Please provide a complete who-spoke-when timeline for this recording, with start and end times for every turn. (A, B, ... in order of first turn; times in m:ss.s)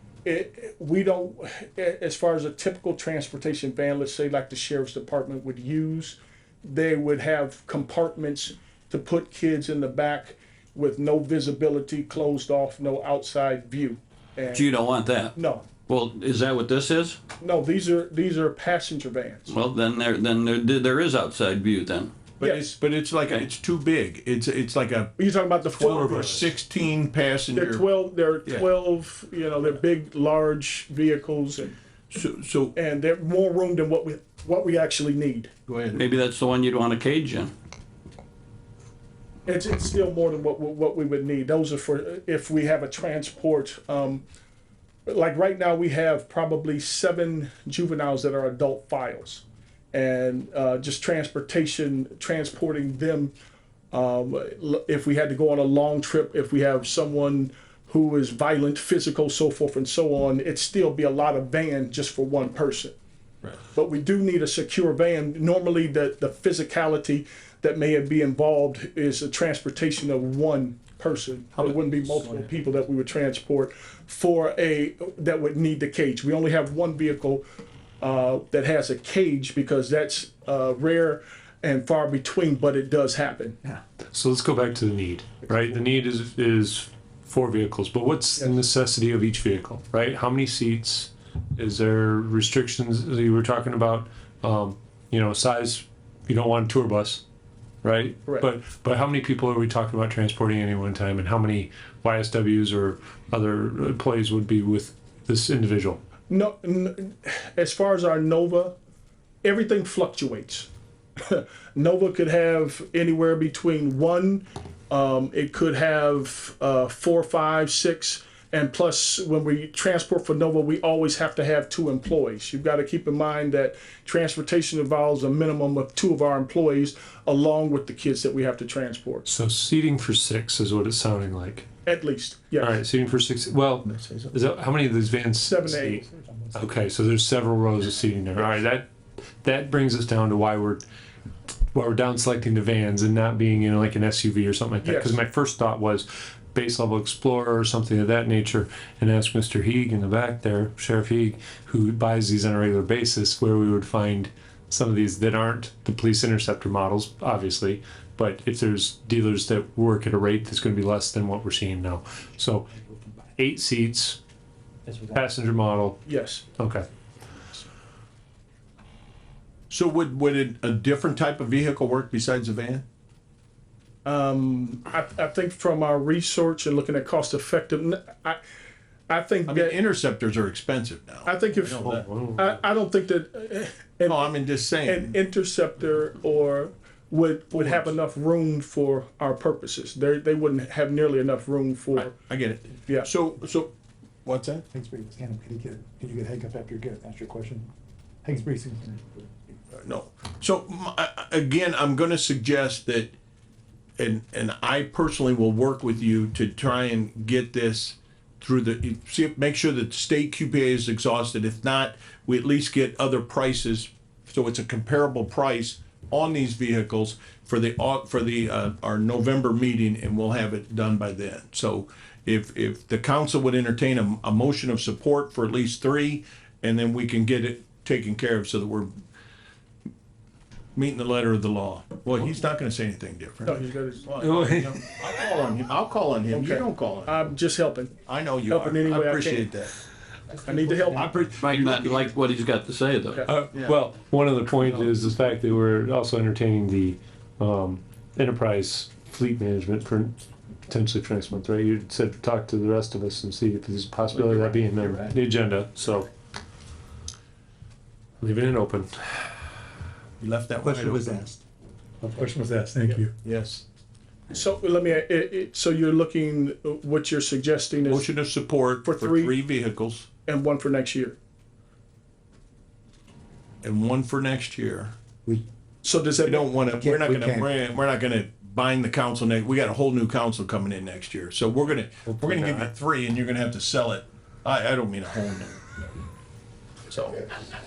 0:00.2-0:14.7 A
0:14.5-0:15.3 B
0:15.3-0:15.6 A
0:15.9-0:17.2 B
0:17.4-0:19.5 A
0:19.5-0:22.1 B
0:22.4-0:25.1 C
0:25.2-0:26.4 A
0:25.8-0:27.8 C
0:27.5-0:31.8 A
0:32.1-0:32.7 C
0:32.7-0:35.5 A
0:35.7-0:36.0 C
0:35.9-0:37.5 B
0:39.4-0:44.2 A
0:45.0-0:53.3 A
0:53.9-1:02.9 A
1:03.7-1:17.4 A
1:11.6-1:12.4 C
1:18.0-1:23.7 A
1:24.1-1:37.2 D
1:37.8-1:46.0 D
1:46.3-1:48.7 A
1:49.4-2:09.2 A
2:09.2-2:11.7 D
2:11.8-2:12.7 A
2:12.6-2:16.0 D
2:13.9-2:14.3 C
2:15.4-2:16.0 A
2:16.0-2:16.7 E
2:16.5-2:18.9 D
2:19.4-2:20.8 D
2:21.7-2:42.7 D
2:24.8-2:25.2 A
2:43.4-2:44.2 D
2:45.1-2:46.9 D
2:46.0-2:46.4 A
2:49.7-2:52.8 C
2:54.0-2:58.4 A
2:59.1-2:59.8 A
2:59.5-3:02.0 C
3:01.2-3:04.2 A
3:01.7-3:02.6 D
3:04.1-3:05.2 C
3:04.8-3:12.1 A
3:07.5-3:07.9 C
3:11.9-3:13.7 C
3:14.2-3:14.6 C
3:14.7-3:17.7 E
3:18.2-3:19.3 E
3:19.7-3:23.1 C
3:24.0-3:48.9 C
3:50.8-3:57.3 C
3:53.4-3:54.0 A
3:54.2-3:54.8 D
3:56.3-3:57.9 A
3:58.0-3:59.7 C
3:58.5-3:59.5 A
4:00.4-4:01.1 A
4:00.7-4:02.1 C
4:01.4-4:03.2 B
4:03.3-4:10.2 D
4:10.7-4:16.1 D
4:14.1-4:15.1 C
4:18.2-4:19.4 D
4:20.2-4:21.3 C
4:20.6-4:21.4 E
4:22.0-4:23.1 E
4:23.2-4:23.6 C
4:24.3-4:28.1 A
4:27.8-4:30.1 C
4:28.8-4:29.3 A
4:30.2-4:31.2 A
4:33.6-4:34.9 C
4:35.8-4:36.5 A
4:36.2-4:45.8 C
4:36.8-4:37.5 E
4:42.1-4:42.7 D
4:46.9-4:47.2 C